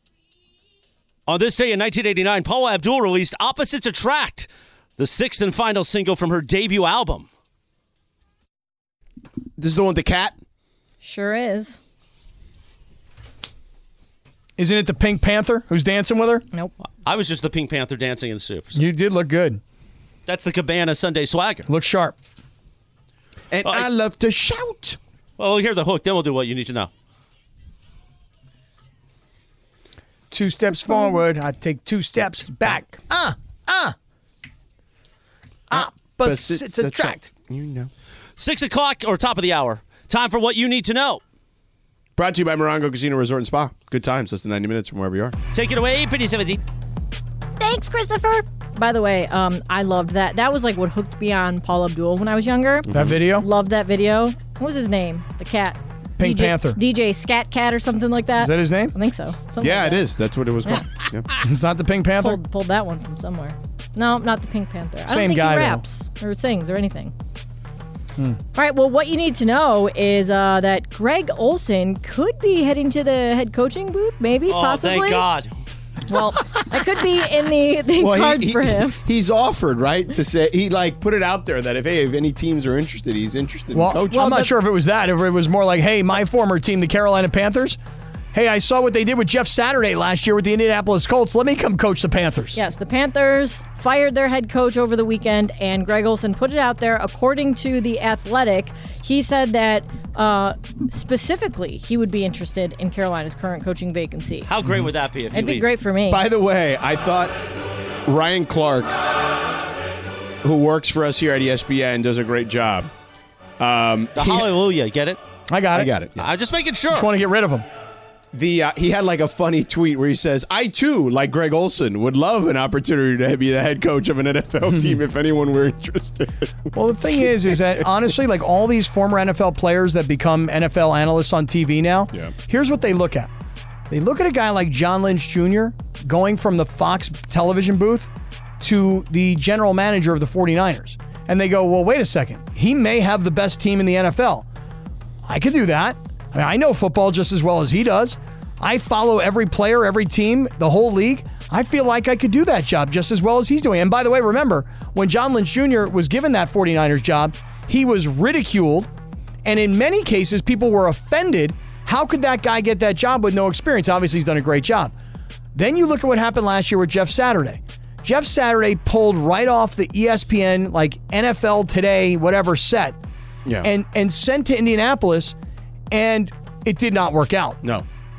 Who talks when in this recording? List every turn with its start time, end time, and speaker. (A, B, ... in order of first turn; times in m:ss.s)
0:01.3-0:07.2 A
0:09.6-0:10.4 B
0:11.0-0:11.8 C
0:14.6-0:16.4 D
0:17.0-0:18.8 A
0:18.7-0:19.6 D
0:20.3-0:21.7 A
0:21.7-0:22.1 D
0:23.5-0:25.0 B
0:25.4-0:26.9 A
0:30.3-0:33.9 D
0:35.7-0:37.3 D
0:35.7-0:37.9 B
0:38.4-0:41.2 A
0:42.2-0:45.4 B
0:45.5-0:46.6 A
0:47.6-1:00.1 C
0:52.9-0:53.2 B
0:52.9-0:53.4 D
0:56.2-0:56.8 D
0:58.4-0:58.9 D
0:59.6-1:01.3 B
1:01.4-1:02.4 D
1:02.2-1:07.1 C
1:05.1-1:05.8 D
1:08.5-1:15.3 C
1:14.5-1:15.5 A
1:16.1-1:19.0 C
1:18.0-1:24.1 B
1:23.7-1:27.8 D
1:24.1-1:24.5 C
1:28.3-1:32.6 D
1:32.5-1:44.5 C
1:44.5-1:45.7 A
1:45.3-1:46.3 C
1:46.1-1:47.3 B
1:48.0-1:48.9 B
1:50.4-1:52.9 B
1:53.6-1:54.5 B
1:54.1-1:55.2 A
1:55.5-1:55.9 D
1:55.7-1:56.3 B
1:56.2-1:57.1 A
1:56.9-1:57.6 D
1:58.3-2:06.7 B
2:06.7-2:13.3 D
2:13.9-2:24.4 D
2:25.2-2:38.9 D
2:39.4-2:44.9 D
2:45.5-2:53.0 D
2:53.6-2:55.3 D
2:55.9-2:57.6 D